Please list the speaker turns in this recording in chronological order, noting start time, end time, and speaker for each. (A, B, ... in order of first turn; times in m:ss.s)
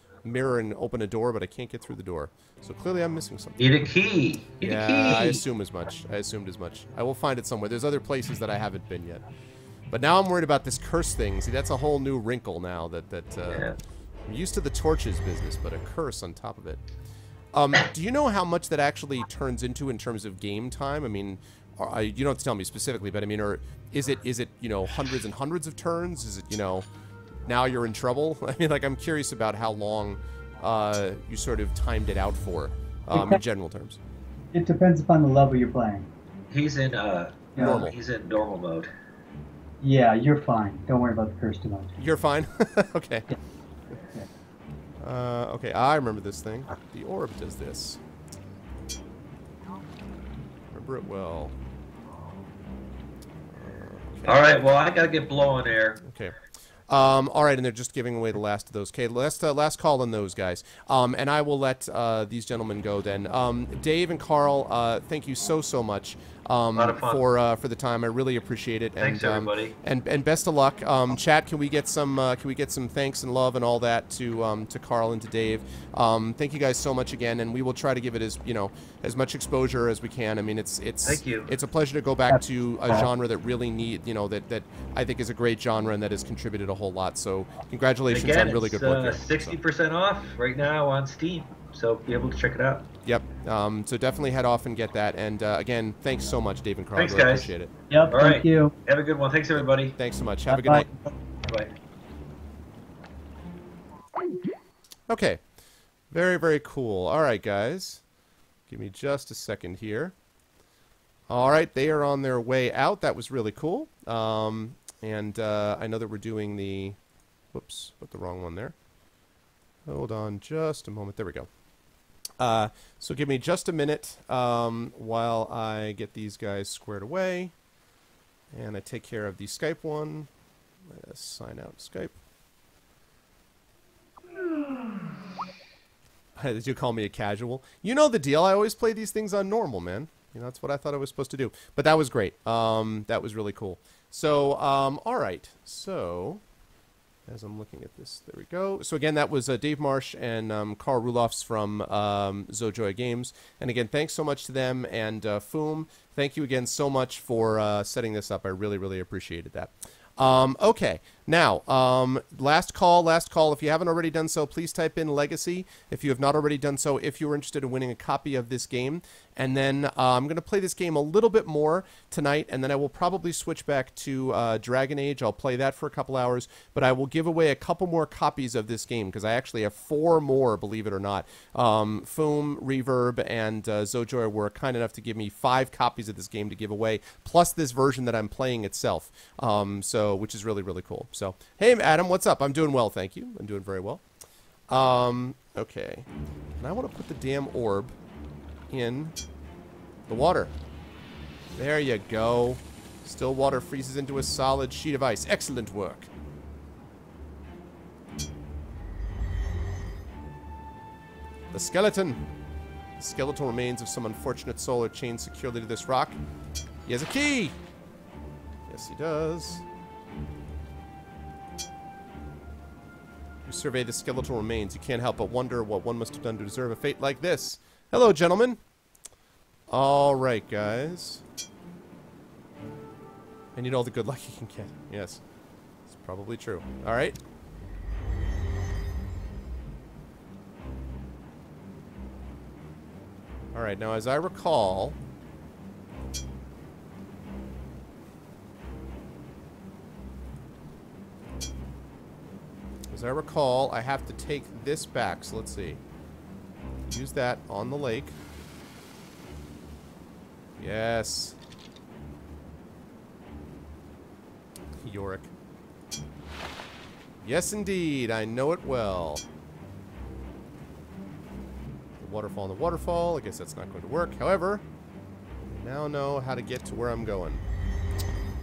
0:00.2-0:03.8 A
0:03.6-0:05.4 B
0:04.6-0:09.2 A
0:09.9-0:13.7 A
0:13.5-0:13.8 B
0:14.3-0:16.8 A
0:17.5-0:26.9 A
0:27.5-0:34.0 A
0:33.1-0:33.4 C
0:34.5-0:36.1 C
0:36.5-0:38.9 B
0:37.6-0:37.9 C
0:37.6-0:38.0 A
0:39.8-0:41.9 C
0:42.0-0:43.3 A
0:45.0-0:48.0 A
0:50.7-0:51.5 A
0:53.5-0:54.5 A
0:54.3-0:56.0 B
0:56.0-0:56.3 A
0:56.9-1:29.6 A
1:06.8-1:07.2 B
1:09.0-1:09.8 B
1:21.0-1:21.5 B
1:28.1-1:32.9 B
1:33.0-1:37.7 A
1:37.0-1:37.5 B
1:37.9-1:38.7 C
1:38.1-1:39.9 B
1:39.9-1:40.9 A
1:40.5-1:40.9 C
1:45.1-1:45.4 A
1:46.1-1:48.0 A
1:48.7-1:50.1 A
1:51.3-1:57.0 A
1:57.5-1:58.8 A
1:59.9-2:01.5 A
2:02.4-2:07.5 A
2:08.5-2:10.3 A
2:10.9-2:12.2 A
2:16.4-2:26.4 A
2:27.3-3:14.0 A
3:14.7-3:16.1 A
3:16.6-3:18.0 A
3:18.7-3:19.2 A
3:20.1-3:20.5 A
3:21.6-3:26.1 A
3:31.5-3:32.2 A
3:33.0-3:36.2 A
3:36.9-3:37.6 A
3:38.7-3:39.6 A
3:43.5-3:48.6 A
3:49.7-3:51.2 A
3:53.6-3:55.2 A
3:55.9-3:57.2 A
4:03.5-4:05.0 A
4:12.9-4:15.8 A
4:16.9-4:18.2 A
4:20.6-4:21.4 A
4:24.8-4:25.3 A
4:27.2-4:29.2 A
4:32.0-4:34.6 A
4:35.5-4:37.4 A